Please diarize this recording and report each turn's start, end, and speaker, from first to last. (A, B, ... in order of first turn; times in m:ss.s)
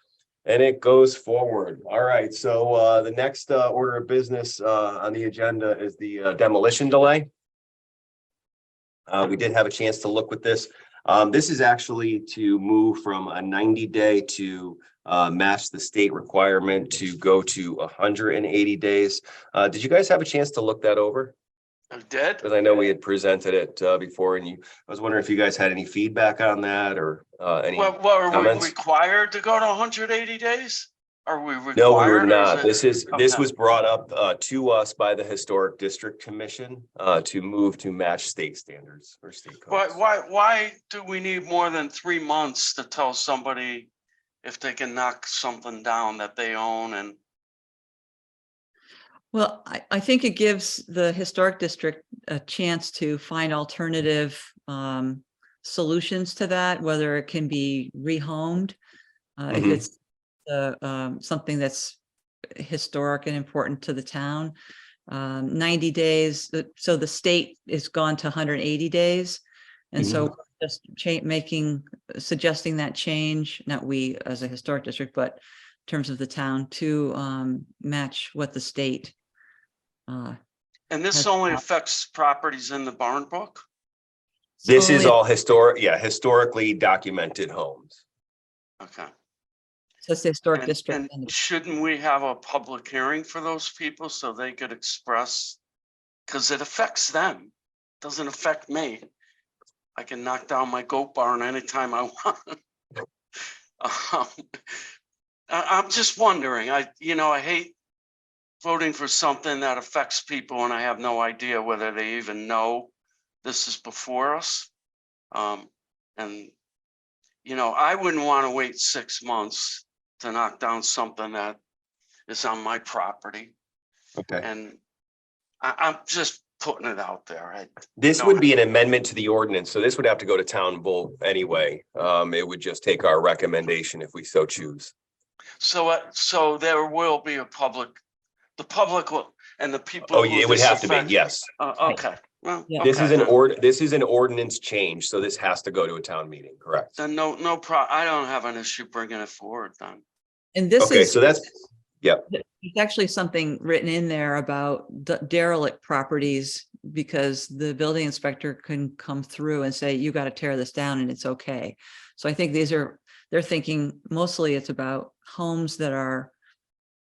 0:00.5-0:07.3 A
0:09.1-0:21.3 A
0:21.9-0:22.5 B
0:22.4-0:28.7 A
0:27.8-0:33.4 B
0:31.8-0:40.0 A
0:39.7-0:43.9 B
0:44.4-0:47.2 B
0:49.3-0:58.8 C
0:59.4-0:59.9 C
0:59.5-0:59.8 A
1:00.5-1:02.0 C
1:02.6-1:04.5 C
1:05.1-1:09.4 C
1:09.9-1:19.2 C
1:10.0-1:10.3 A
1:20.1-1:20.4 C
1:20.9-1:23.6 B
1:21.1-1:21.6 C
1:24.6-1:28.0 A
1:24.7-1:25.2 C
1:28.8-1:29.1 B
1:30.0-1:31.3 C
1:30.6-1:35.6 B
1:36.3-1:39.1 B
1:40.0-1:42.6 B
1:43.8-1:44.8 B
1:45.5-1:47.7 B
1:48.6-1:52.9 B
1:53.4-1:54.7 B
1:55.3-1:56.5 B
1:57.4-2:01.6 B
2:02.3-2:03.5 B
2:04.2-2:04.4 A
2:04.4-2:04.8 B
2:05.6-2:08.5 B
2:08.0-2:14.9 A
2:15.6-2:18.0 B
2:18.6-2:23.4 B
2:20.1-2:21.5 A
2:22.8-2:27.0 A
2:27.0-2:30.0 B
2:30.5-2:31.2 C
2:30.8-2:32.3 A
2:32.3-2:46.3 C